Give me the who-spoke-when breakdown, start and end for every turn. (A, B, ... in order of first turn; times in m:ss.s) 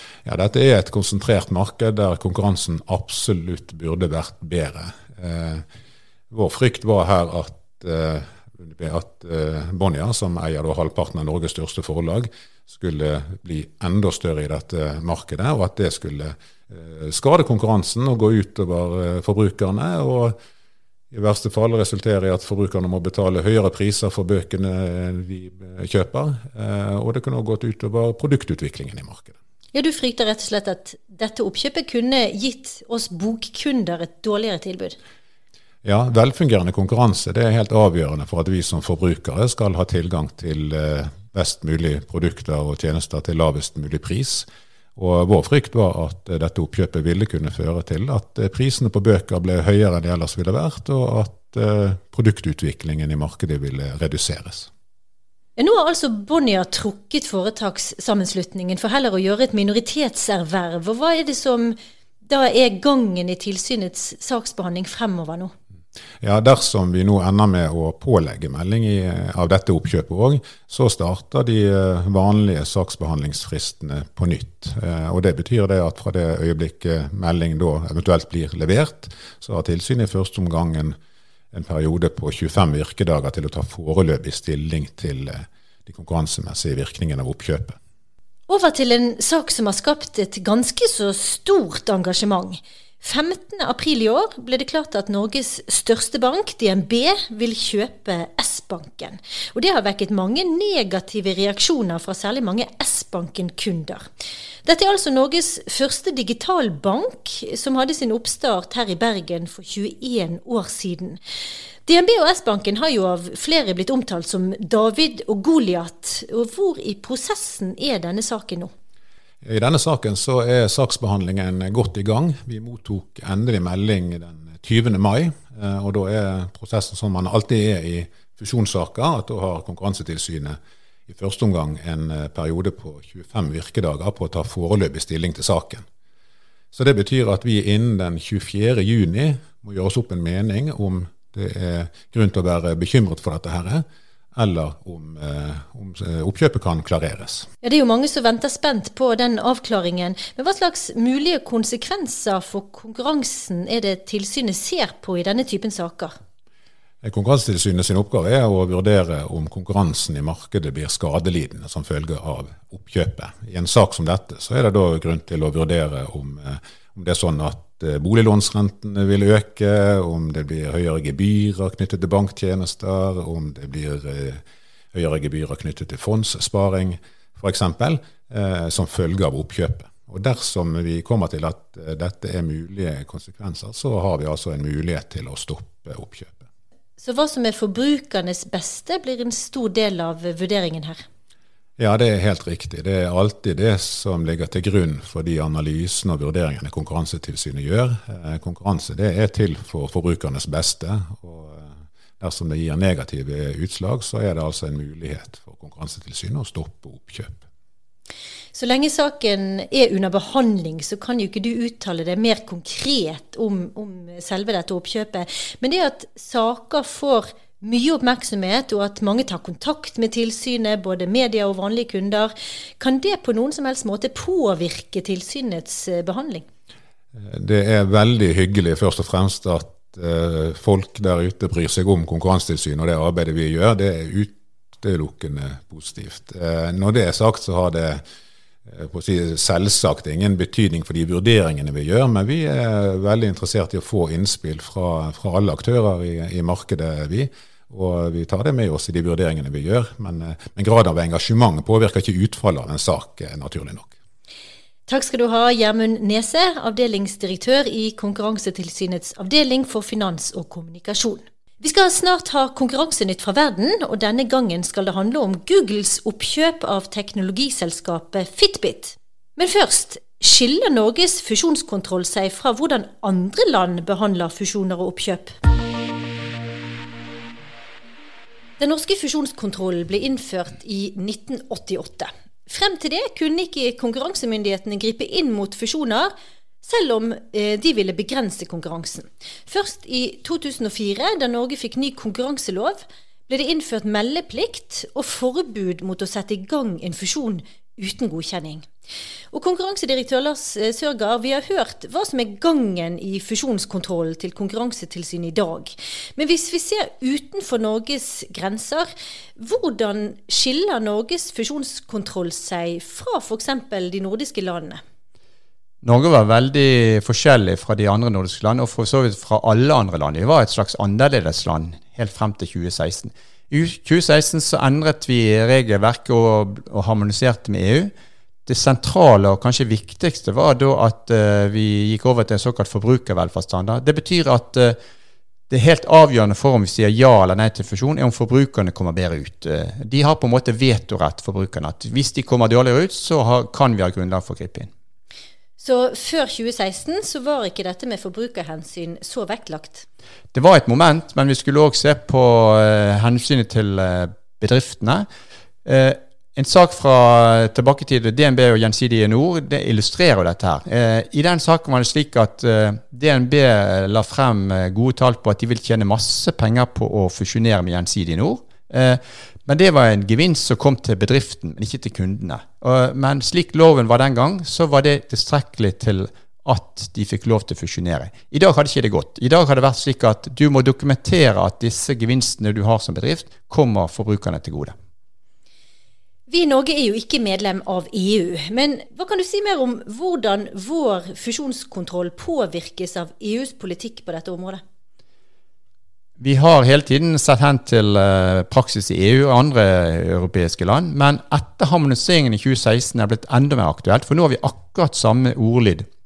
0:00.2-0:05.6 A
0:06.3-0:20.4 A
0:21.1-0:29.3 A
0:29.7-0:35.0 B
0:35.8-0:54.7 A
0:55.6-1:05.5 B
1:06.2-1:21.0 A
1:21.5-1:27.8 A
1:28.5-1:44.0 B
1:44.6-1:51.2 B
1:51.8-1:58.7 B
1:59.4-2:15.8 A
2:16.7-2:27.5 A
2:27.6-2:36.1 B
2:37.0-2:54.4 A
2:54.9-3:06.4 A
3:07.0-3:11.0 B
3:11.8-3:27.4 A
3:28.5-3:46.4 B
3:47.1-3:58.0 A
3:58.7-4:13.9 A
4:14.9-4:35.4 B
4:38.6-4:46.1 B
4:46.6-4:58.7 B
4:59.3-5:14.8 B
5:15.8-5:27.9 C
5:28.4-5:34.8 C
5:35.5-5:44.7 C
5:45.6-5:49.8 B
5:50.3-5:55.1 C
5:55.6-6:24.7 C
6:26.3-6:34.6 B
6:36.2-6:45.9 C